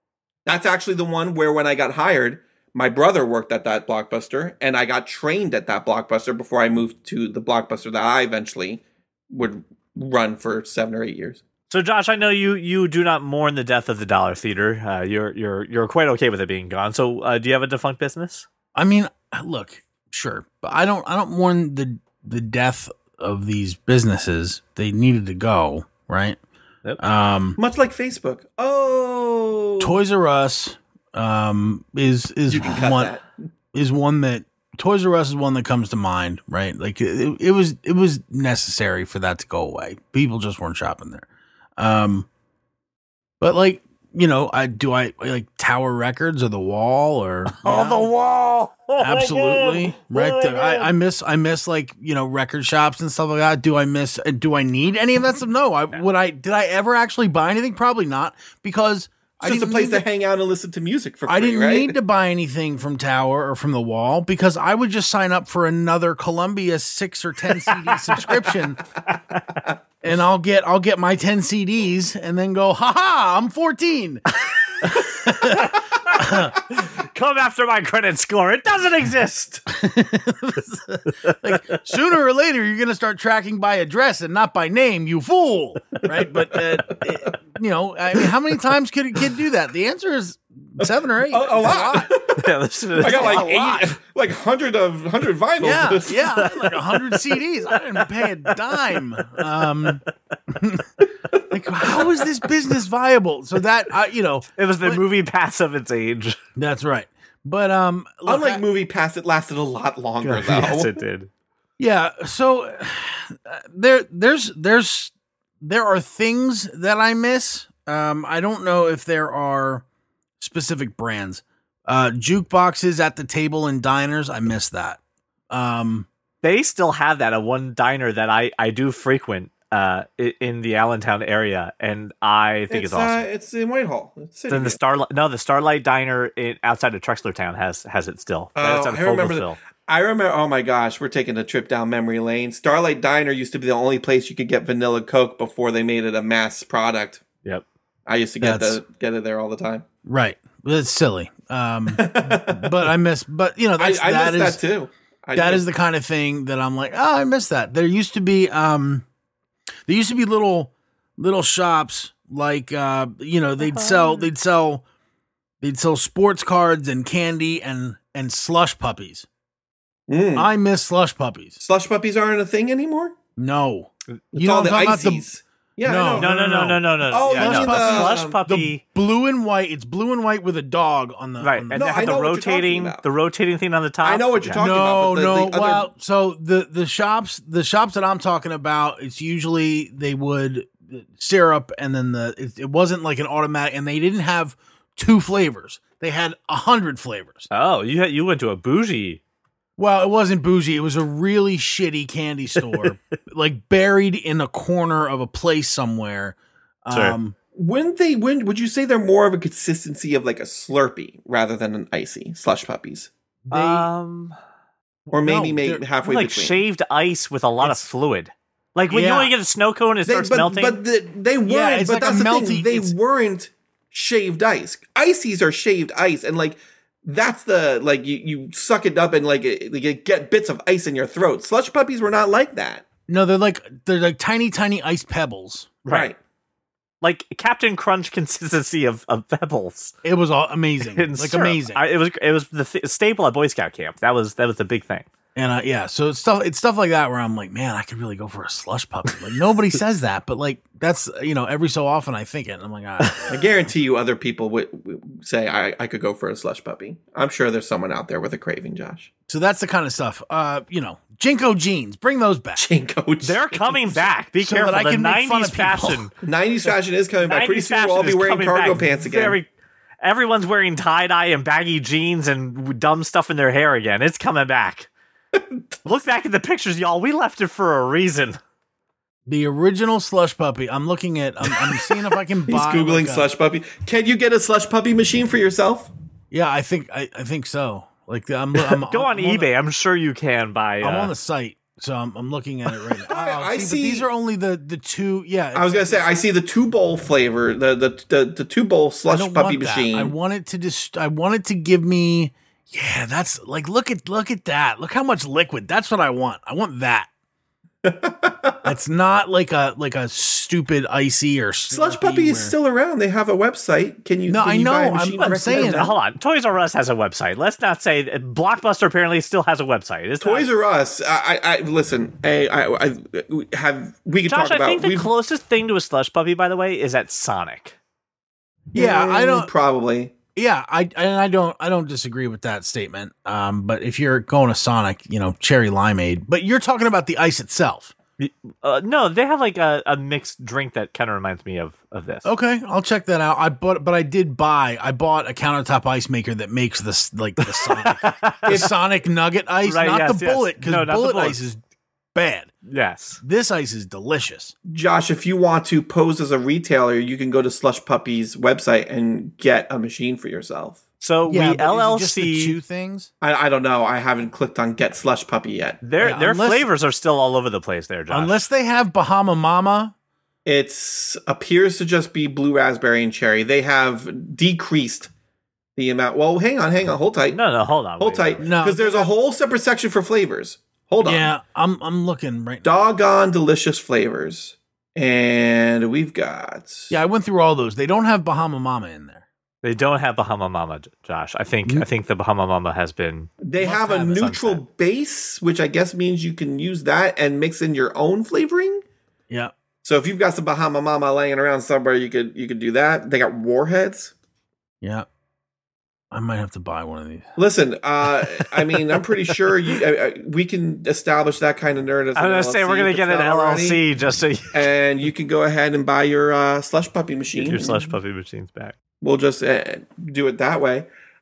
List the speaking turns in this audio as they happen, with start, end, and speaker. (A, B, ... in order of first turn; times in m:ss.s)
0:00.4-0:11.4 A
0:11.7-0:18.5 B
0:18.7-0:26.4 C
0:27.0-0:27.6 C
0:27.6-0:30.0 A
0:29.8-0:33.1 C
0:32.5-0:33.3 A
0:33.7-0:41.2 C
0:41.8-0:42.3 C
0:43.4-0:48.1 C
0:47.5-0:50.9 B
0:49.0-1:00.0 C
0:59.4-1:02.0 A
1:01.3-1:08.8 C
1:07.7-1:08.4 B
1:09.2-1:09.6 B
1:10.0-1:14.2 C
1:14.4-1:19.6 B
1:15.0-1:16.5 C
1:19.7-1:32.1 C
1:21.3-1:21.8 B
1:30.8-1:32.4 A
1:32.4-1:33.9 B
1:33.0-1:36.4 A
1:33.1-1:33.5 C
1:35.6-1:40.9 C
1:36.3-1:39.9 B
1:41.5-1:45.0 C
1:44.5-1:46.4 B
1:46.6-1:48.6 C
1:48.2-1:51.0 A
1:50.2-1:51.3 B
1:51.8-1:59.8 C
2:00.4-2:06.1 C
2:06.4-2:13.2 B
2:12.7-2:14.8 A
2:14.5-2:19.6 B
2:18.6-2:27.2 A
2:28.1-2:29.8 A
2:28.4-2:28.8 C
2:30.0-2:34.6 C
2:31.9-2:32.9 A
2:33.8-2:35.6 A
2:35.3-2:39.0 C
2:39.8-2:44.8 C
2:43.6-2:44.3 B
2:45.6-2:49.3 C
2:50.1-2:50.5 A
2:50.4-2:51.6 C
2:51.6-2:53.1 A
2:53.4-2:55.2 C
2:54.3-2:56.3 A
2:55.8-3:02.2 C
2:56.2-2:58.8 B
2:57.1-2:58.4 A
3:01.4-3:04.6 B
3:01.7-3:03.0 A
3:04.0-3:05.9 A
3:04.5-3:17.5 C
3:17.5-3:19.2 B
3:19.8-3:27.3 C
3:26.9-3:27.2 B
3:27.5-3:33.1 A
3:33.4-3:33.9 C
3:33.5-3:34.4 B
3:35.1-3:35.8 C
3:35.1-3:36.6 A
3:36.0-3:40.8 B
3:38.9-3:39.3 C
3:40.0-3:52.8 A
3:41.4-3:42.9 C
3:53.1-3:55.8 C
3:55.8-3:56.1 B
3:55.9-3:56.2 A
3:57.0-3:59.9 B
4:00.0-4:01.8 C
4:00.9-4:05.1 B
4:05.3-4:13.4 C
4:13.3-4:19.1 A
4:19.3-4:22.6 C
4:22.6-4:23.9 A
4:23.2-4:26.1 B
4:24.3-4:26.1 C
4:26.2-4:29.4 A
4:27.2-4:29.5 B
4:30.0-4:34.9 B
4:35.8-4:38.4 B
4:39.3-4:43.3 C
4:42.5-4:45.9 A
4:46.3-4:49.5 C
4:48.9-4:51.1 B
4:50.8-4:56.1 C
4:53.0-4:54.1 A
4:55.5-5:00.1 A
4:59.1-5:07.1 C
5:07.8-5:08.7 A
5:08.6-5:12.5 C
5:11.7-5:15.9 A
5:14.3-5:15.9 C
5:15.2-5:20.5 B
5:20.2-5:25.1 A
5:24.3-5:27.8 B
5:28.7-5:30.2 A
5:28.7-5:29.5 C
5:30.4-5:37.9 C
5:38.2-5:42.3 B
5:42.2-5:51.6 C
5:47.4-5:48.6 B
5:48.4-5:48.7 A
5:49.6-5:51.4 B
5:52.1-5:52.5 C
5:52.6-5:53.2 B
5:53.2-5:54.5 C
5:54.6-6:00.8 A
6:01.0-6:02.6 B
6:01.3-6:03.1 C
6:03.2-6:05.8 A
6:05.8-6:08.4 B
6:06.0-6:06.7 C
6:08.1-6:09.9 C
6:10.4-6:15.1 A
6:15.8-6:17.4 A
6:17.3-6:18.5 B
6:18.0-6:21.3 A
6:18.4-6:19.1 C
6:21.0-6:22.8 C
6:22.6-6:27.0 A
6:26.9-6:29.2 C
6:29.6-6:33.4 B
6:33.4-6:38.8 A
6:33.6-6:34.3 C
6:34.1-6:34.6 B
6:39.8-6:44.1 A
6:44.8-6:45.1 C
6:46.1-6:47.3 C
6:47.4-6:53.8 A
6:52.2-6:54.6 B
6:54.5-6:58.0 A
6:57.4-6:58.8 B
6:59.0-7:00.9 A